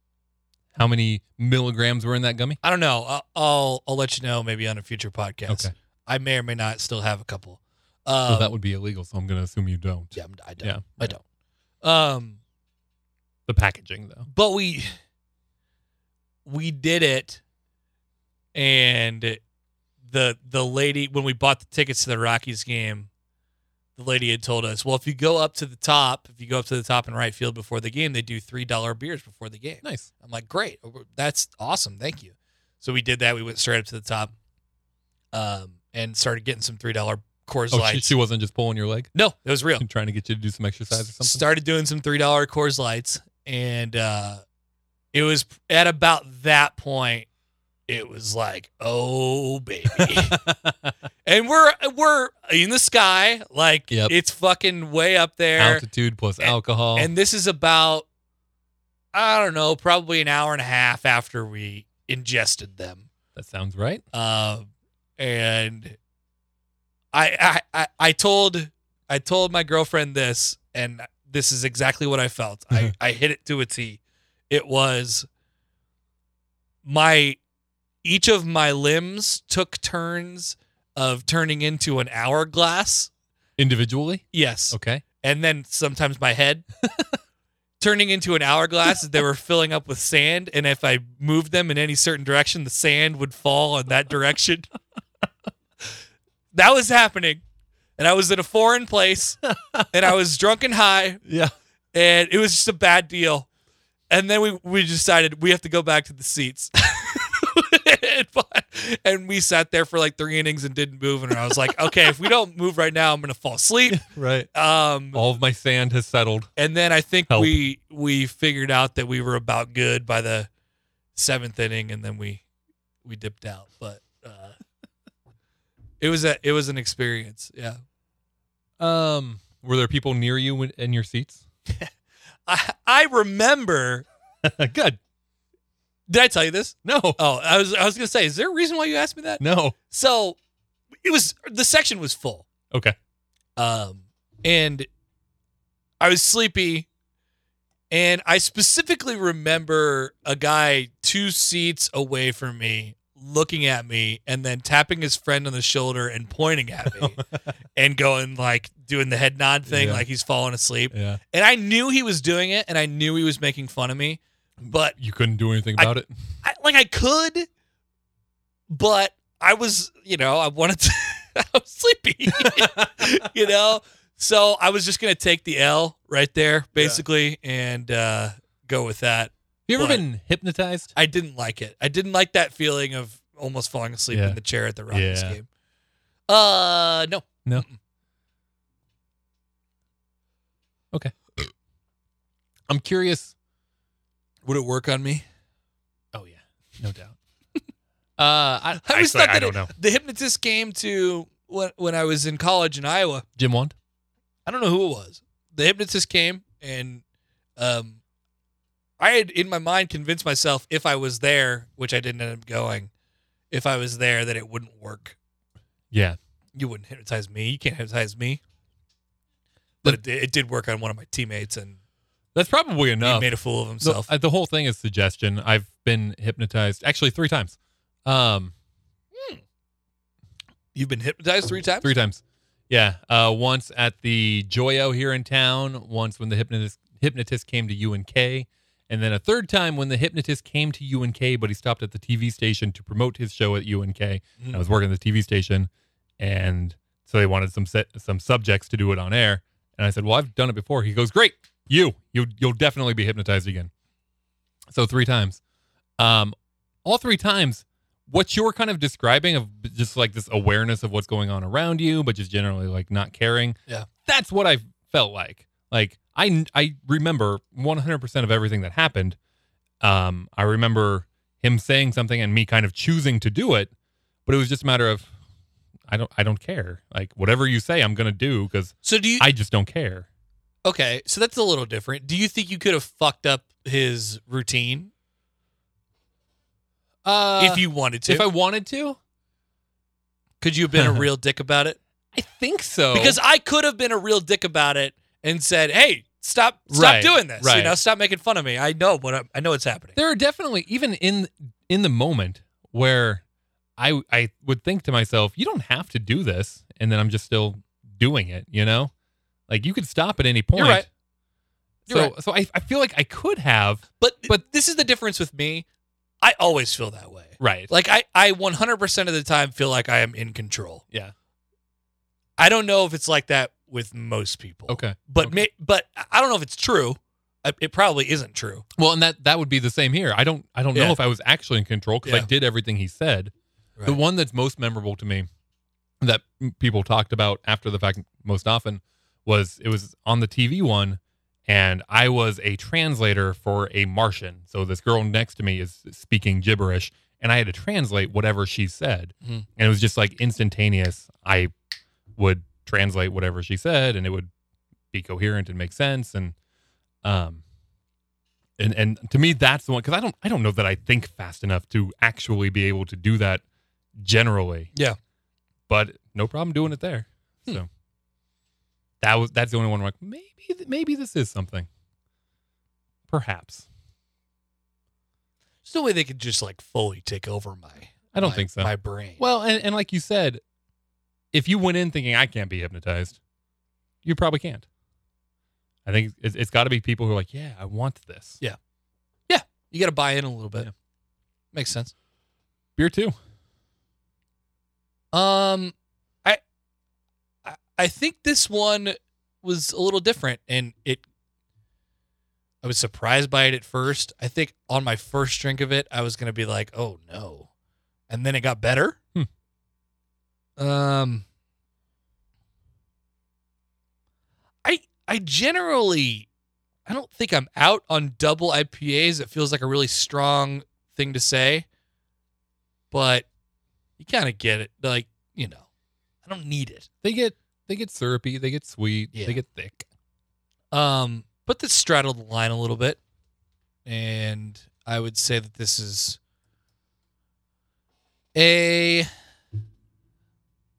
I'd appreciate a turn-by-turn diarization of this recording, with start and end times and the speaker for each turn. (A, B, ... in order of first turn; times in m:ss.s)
0:00.7-0:02.6 A
0:02.6-0:08.5 B
0:05.5-0:05.7 A
0:08.3-0:11.1 A
0:10.1-0:11.2 B
0:11.8-0:12.4 B
0:13.5-0:14.3 A
0:14.3-0:15.0 B
0:16.4-0:17.4 B
0:18.5-0:19.4 B
0:20.1-0:23.1 B
0:24.0-0:34.3 B
0:29.8-0:30.1 A
0:35.3-0:38.1 B
0:37.7-0:39.1 A
0:39.1-0:39.8 B
0:39.8-0:41.4 A
0:41.0-0:44.4 B
0:45.1-0:47.3 B
0:47.9-0:50.4 B
0:49.9-0:50.9 A
0:51.2-0:55.8 B
0:55.6-0:57.1 A
0:56.4-0:58.0 B
0:59.1-1:03.1 B
1:03.3-1:04.0 A
1:04.1-1:04.6 B
1:05.2-1:06.0 B
1:07.1-1:15.3 B
1:16.8-1:17.4 B
1:18.0-1:23.1 B
1:23.6-1:25.0 A
1:24.3-1:26.6 B
1:26.8-1:27.2 A
1:27.8-1:34.7 B
1:36.5-1:37.4 B
1:38.0-1:41.2 B
1:39.4-1:40.1 A
1:41.2-1:41.5 A
1:41.9-1:43.5 B
1:44.1-1:55.2 B
1:51.8-1:52.1 A
1:53.9-1:54.5 A
1:55.1-1:56.5 A
1:56.6-2:00.5 B
1:57.3-1:57.6 A
2:01.2-2:02.4 B
2:03.0-2:04.5 B
2:06.0-2:07.8 B
2:08.8-2:11.4 A
2:12.4-2:14.0 B
2:14.4-2:15.0 A
2:16.1-2:20.4 B
2:16.8-2:17.2 A
2:19.4-2:19.8 A
2:21.0-2:22.4 B
2:22.7-2:23.0 A
2:23.6-2:24.9 B
2:26.0-2:26.9 B
2:27.9-2:37.2 B
2:37.0-2:37.2 A
2:37.7-2:45.0 B
2:39.7-2:40.0 A
2:40.9-2:41.2 A
2:44.9-2:46.1 A
2:45.8-2:47.5 B
2:48.7-3:00.0 B
2:52.4-2:53.1 A
2:56.8-2:57.0 A
2:59.7-3:00.9 A
3:00.9-3:05.5 B
3:04.1-3:04.4 A
3:04.9-3:05.4 A
3:06.3-3:07.8 B
3:12.7-3:13.3 A
3:14.4-3:15.2 B
3:16.1-3:17.2 A
3:18.2-3:19.7 A
3:18.8-3:23.2 B
3:23.4-3:23.7 A
3:24.4-3:27.0 B
3:27.6-3:28.0 B
3:29.0-3:32.9 B
3:33.5-3:35.2 B
3:35.9-3:36.2 A
3:36.6-3:38.4 B
3:39.8-3:41.8 B
3:42.3-3:48.5 A
3:43.0-3:44.1 B
3:49.1-3:49.4 B
3:50.7-3:51.9 B
3:51.8-4:13.7 A
4:14.7-4:15.4 A
4:16.0-4:29.2 A
4:29.8-4:33.7 A
4:34.2-4:35.1 A
4:35.9-4:40.1 A
4:38.8-4:39.2 B
4:40.6-4:44.9 B
4:47.0-4:49.0 A
4:47.4-4:48.3 B
4:50.4-4:51.8 B
4:50.7-4:51.1 A
4:52.1-4:53.2 A
4:52.9-5:00.0 B
4:56.7-4:57.8 A
5:00.0-5:03.2 A
5:03.8-5:08.9 A
5:09.5-5:10.8 A
5:10.5-5:10.8 B
5:11.9-5:12.1 B
5:11.9-5:13.8 A
5:14.0-5:15.6 B
5:16.2-5:20.8 B
5:17.4-5:17.7 A
5:22.4-5:28.6 B
5:24.7-5:25.4 A
5:28.8-5:33.3 A
5:30.7-5:31.0 B
5:33.8-5:35.3 A
5:36.0-5:51.5 A
5:52.2-5:54.3 A
5:54.9-5:56.3 A
5:57.0-5:57.4 A
5:58.6-6:03.4 A
6:04.0-6:04.7 A
6:05.7-6:07.7 A
6:09.0-6:11.7 A
6:13.1-6:13.6 A
6:15.6-6:19.2 B
6:18.1-6:20.4 A
6:21.3-6:23.2 A
6:24.0-6:24.6 A
6:25.8-6:28.4 A
6:29.3-6:30.7 B
6:31.5-6:31.9 B
6:32.8-6:33.2 A
6:35.1-6:36.4 B
6:37.4-6:41.0 B
6:42.6-6:47.5 B
6:48.1-6:49.0 B
6:50.6-6:51.2 B
6:54.6-6:56.3 B
6:56.9-7:01.6 B
7:02.9-7:03.2 B
7:04.0-7:05.6 B
7:06.2-7:06.9 B
7:07.0-7:09.8 A
7:09.1-7:09.4 B
7:10.7-7:13.0 B
7:13.8-7:16.2 B
7:18.3-7:19.1 B